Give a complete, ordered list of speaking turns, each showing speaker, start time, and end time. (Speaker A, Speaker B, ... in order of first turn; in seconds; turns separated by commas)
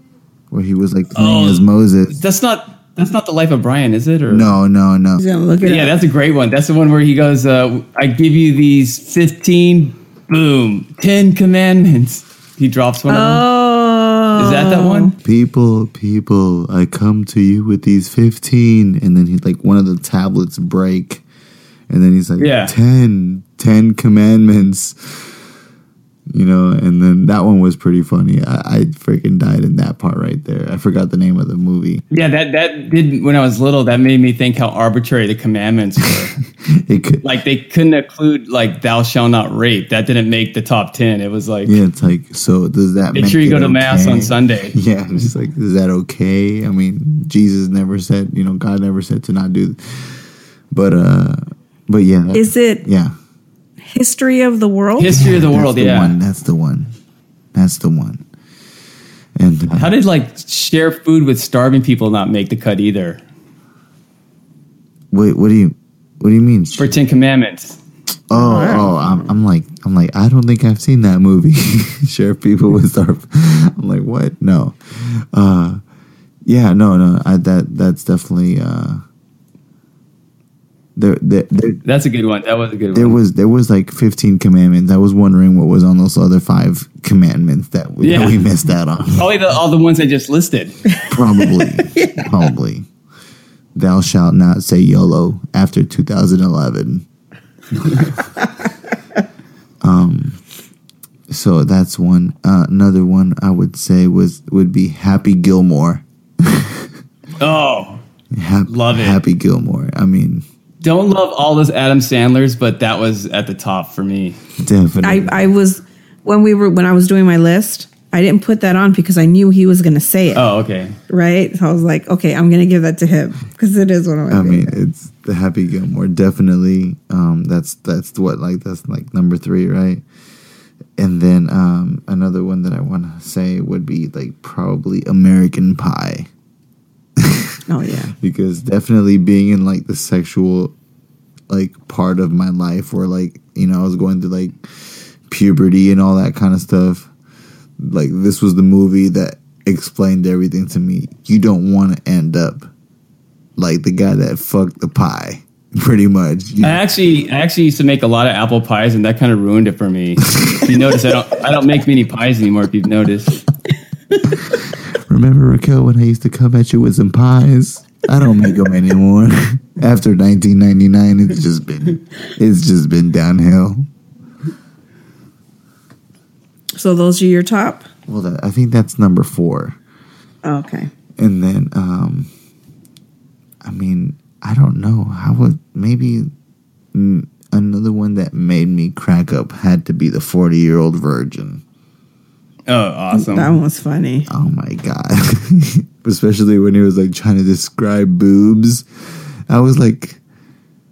Speaker A: 0.5-2.2, Speaker B: 1.1-4.5, Speaker A: 4.3-5.2, Speaker C: 5.2-6.0, Speaker B: 5.6-13.4, Speaker C: 13.1-15.1, Speaker B: 14.4-15.1, Speaker A: 15.2-21.2, Speaker A: 21.9-25.3, Speaker B: 22.4-22.7, Speaker A: 26.3-32.0, Speaker B: 32.1-36.4, Speaker A: 36.7-37.2, Speaker B: 37.2-41.8, Speaker A: 41.6-53.1, Speaker B: 43.1-44.8, Speaker C: 52.3-52.8, Speaker C: 53.8-55.2, Speaker B: 55.0-56.1, Speaker A: 55.1-56.9, Speaker A: 57.5-58.2, Speaker A: 59.4-59.9, Speaker B: 59.8-63.2, Speaker A: 65.1-66.9, Speaker B: 66.8-67.8, Speaker A: 68.3-75.8, Speaker C: 68.3-69.3, Speaker A: 76.5-79.0, Speaker A: 81.0-81.8, Speaker B: 81.8-83.2, Speaker A: 82.9-89.3, Speaker B: 88.0-88.4, Speaker B: 89.1-90.8, Speaker C: 91.0-92.3, Speaker A: 91.1-92.9, Speaker A: 93.8-97.0, Speaker A: 99.8-100.4, Speaker A: 101.3-106.9, Speaker B: 107.4-108.0, Speaker A: 108.3-110.5, Speaker B: 108.7-109.2, Speaker B: 110.8-114.4, Speaker A: 114.6-115.4, Speaker C: 115.0-120.5, Speaker B: 120.3-121.0, Speaker C: 121.1-124.8, Speaker A: 124.3-130.0, Speaker A: 131.0-136.3, Speaker A: 137.2-137.6, Speaker C: 137.7-138.1, Speaker A: 138.1-140.7, Speaker A: 141.5-147.1, Speaker A: 147.8-152.7, Speaker A: 153.6-156.8, Speaker B: 156.6-163.4, Speaker A: 160.4-160.6, Speaker A: 164.2-173.9, Speaker C: 176.8-177.9, Speaker A: 178.1-179.8, Speaker C: 180.4-180.9, Speaker A: 181.2-182.3, Speaker A: 183.6-186.3, Speaker A: 186.9-191.6, Speaker B: 192.7-193.6, Speaker C: 193.1-194.3, Speaker A: 194.3-198.8, Speaker A: 199.5-200.2